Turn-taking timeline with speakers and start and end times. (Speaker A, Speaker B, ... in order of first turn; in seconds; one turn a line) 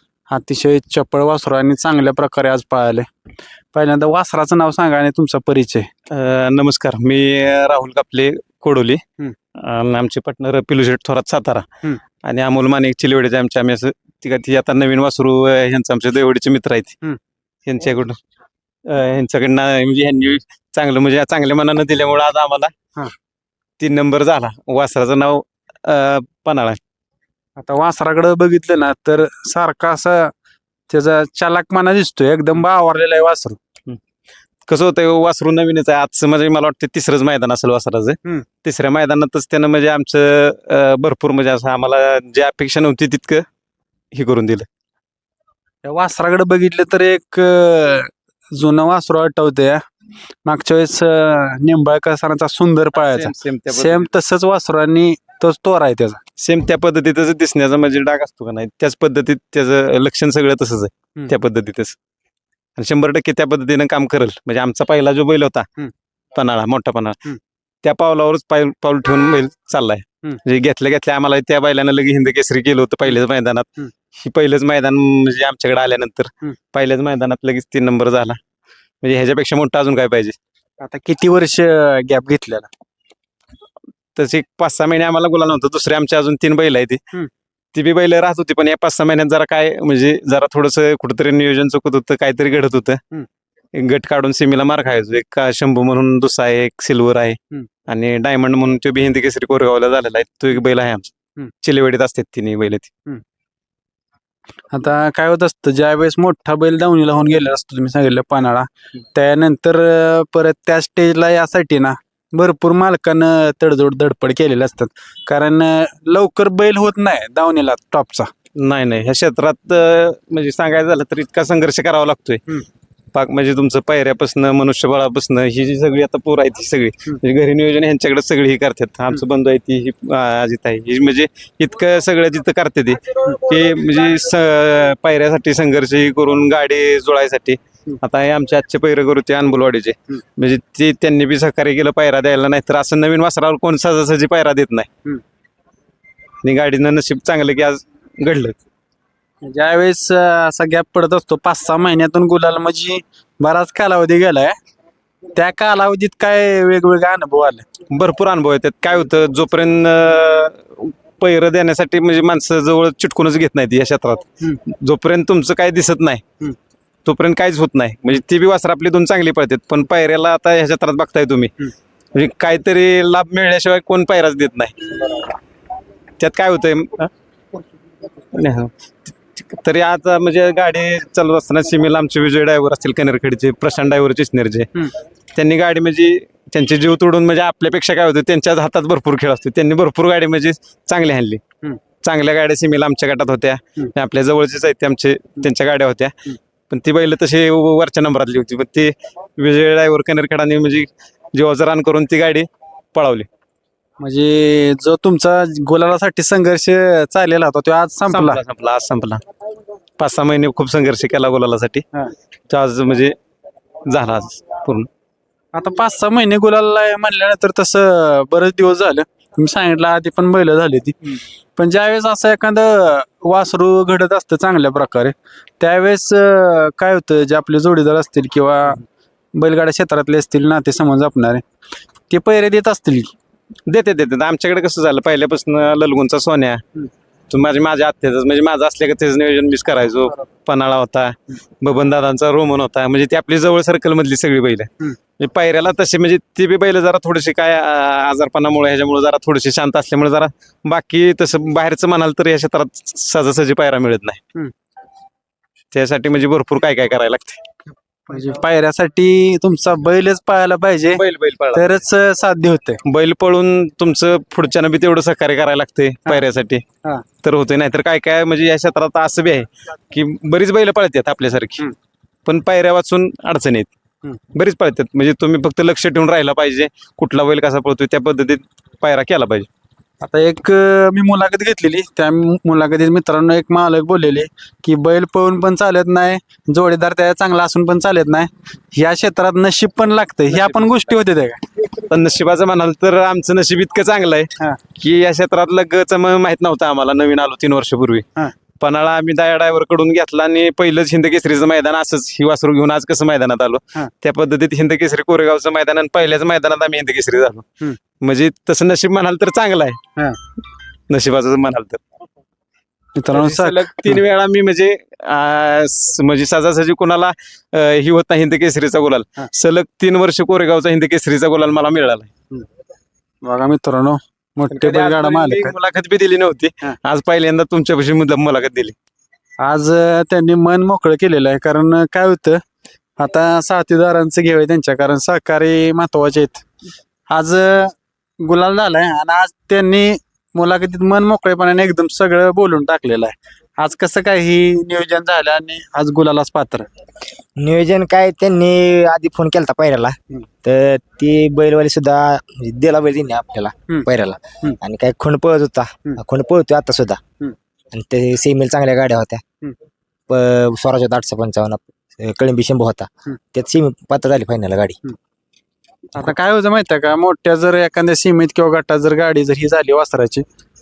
Speaker A: 0.3-3.1
Speaker A: 3.7-5.9
Speaker B: 6.1-9.0
Speaker B: 9.6-11.7
Speaker B: 12.2-17.0
Speaker B: 17.7-18.2
Speaker B: 18.9-22.7
Speaker B: 23.8-26.8
Speaker A: 27.6-30.3
Speaker A: 30.9-33.6
Speaker B: 34.7-43.5
Speaker B: 44.1-44.7
Speaker A: 45.8-49.8
Speaker A: 50.5-56.2
Speaker B: 52.9-54.1
Speaker B: 56.4-62.0
Speaker B: 62.8-65.7
Speaker B: 66.3-67.2
Speaker B: 67.8-78.4
Speaker B: 79.0-80.4
Speaker A: 80.8-82.7
Speaker B: 84.2-87.0
Speaker B: 87.7-93.0
Speaker B: 93.7-102.9
Speaker A: 104.7-118.3
Speaker B: 118.6-122.4
Speaker B: 123.1-144.9
Speaker B: 146.4-148.6
Speaker A: 149.4-154.6
Speaker A: 155.3-157.7
Speaker B: 157.9-166.2
Speaker B: 167.1-171.5
Speaker B: 172.1-175.2
Speaker B: 176.2-177.1
Speaker B: 178.3-184.7
Speaker B: 185.3-191.4
Speaker B: 192.0-196.1
Speaker B: 196.7-203.3
Speaker A: 204.0-208.4
Speaker B: 208.1-209.2
Speaker B: 210.0-211.8
Speaker B: 212.5-213.2
Speaker B: 213.9-214.9
Speaker A: 215.5-228.8
Speaker A: 229.3-231.4
Speaker A: 232.1-233.1
Speaker B: 233.7-236.6
Speaker B: 237.3-254.2
Speaker B: 255.7-257.4
Speaker A: 258.1-261.0
Speaker B: 260.9-261.8
Speaker A: 261.5-262.8
Speaker B: 262.9-266.6
Speaker B: 267.2-271.7
Speaker B: 272.3-273.7
Speaker B: 274.3-279.5
Speaker A: 280.0-291.4
Speaker B: 290.3-290.7
Speaker B: 291.7-298.1
Speaker B: 298.6-307.5
Speaker B: 308.0-309.8
Speaker B: 310.9-311.8
Speaker A: 313.0-314.0
Speaker B: 313.1-322.1
Speaker A: 323.2-325.6
Speaker B: 324.5-328.8
Speaker A: 329.4-332.4
Speaker A: 333.0-336.4
Speaker A: 337.1-346.7
Speaker C: 347.4-357.0
Speaker C: 357.7-359.2
Speaker C: 360.1-364.8
Speaker A: 365.9-370.2